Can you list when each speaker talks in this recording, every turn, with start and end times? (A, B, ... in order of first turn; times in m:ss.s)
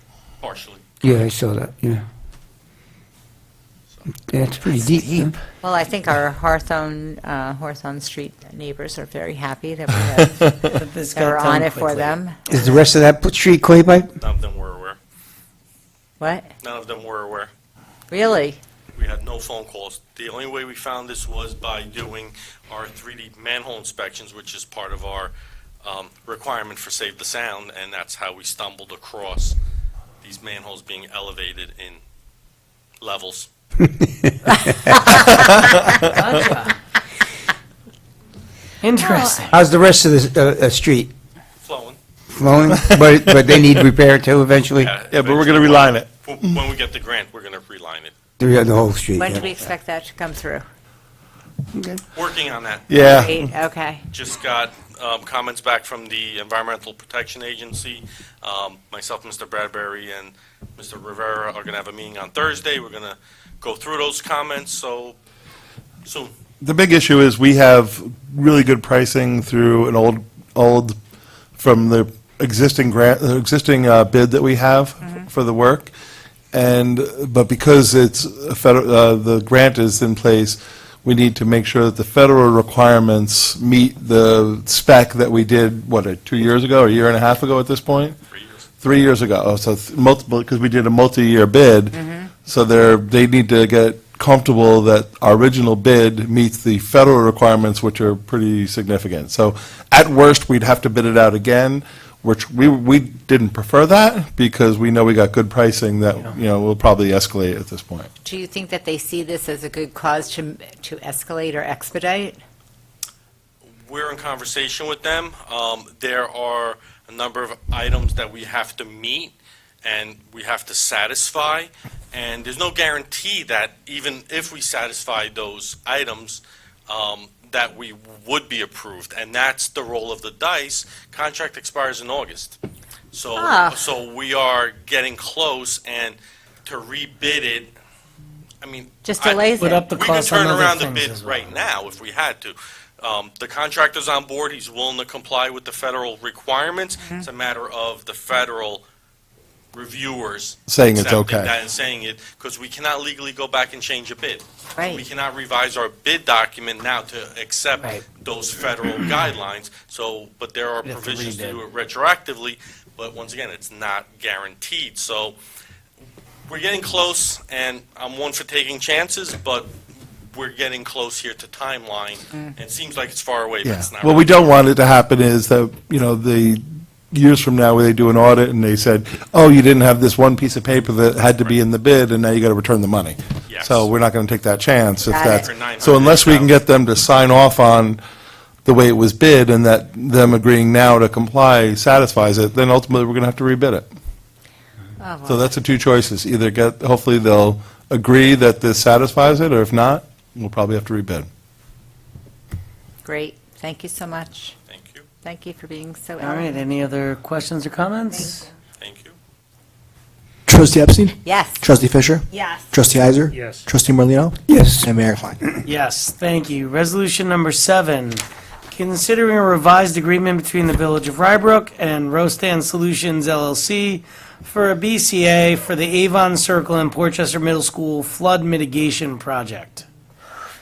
0:00.4-0:01.3 A
0:01.0-0:02.0 B
0:04.3-0:05.4 B
0:05.6-0:10.5 C
0:10.6-0:12.2 D
0:11.1-0:12.4 C
0:12.5-0:14.1 B
0:14.2-0:15.0 A
0:16.2-0:16.5 C
0:16.6-0:17.5 A
0:18.1-0:18.6 C
0:19.0-0:25.3 A
0:25.8-0:29.6 A
0:30.2-0:32.0 A
0:33.0-0:33.5 A
0:35.2-0:36.0 E
0:36.1-0:36.8 D
0:38.8-0:39.6 D
0:39.0-0:39.5 C
0:39.5-0:41.1 B
0:41.6-0:42.0 A
0:42.3-0:44.9 B
0:42.7-0:43.8 E
0:44.8-0:48.1 A
0:45.1-0:46.6 E
0:48.4-0:49.7 B
0:49.2-0:50.6 C
0:51.8-0:52.0 B
0:52.1-0:53.1 A
0:52.9-0:53.4 E
0:53.0-0:54.0 C
0:54.1-1:05.2 A
1:06.0-1:06.3 A
1:06.6-1:11.0 E
1:11.6-1:15.9 E
1:16.5-1:28.2 E
1:28.3-1:28.6 A
1:28.8-1:48.1 E
1:31.9-1:32.3 C
1:48.2-1:52.4 C
1:53.9-2:12.6 A
2:13.1-2:17.7 A
2:13.4-2:13.8 C
2:18.6-2:28.8 A
2:19.0-2:19.8 C
2:19.6-2:21.4 D
2:29.7-2:45.4 A
2:30.7-2:31.5 E
2:34.8-2:35.0 C
2:40.8-2:41.6 D
2:46.5-2:49.8 A
2:50.3-2:54.5 A
2:53.6-3:08.0 E
3:03.5-3:03.9 A
3:05.1-3:05.5 C
3:05.3-3:06.5 A
3:08.6-3:13.9 E
3:15.0-3:15.5 C
3:15.3-3:21.3 E
3:23.0-3:24.6 C
3:24.7-3:25.0 A
3:25.2-3:26.6 C
3:26.2-3:28.5 D
3:28.8-3:29.2 A
3:30.5-3:35.6 F
3:31.2-3:31.7 C
3:32.3-3:32.6 C
3:34.5-3:34.9 B
3:35.6-3:49.8 D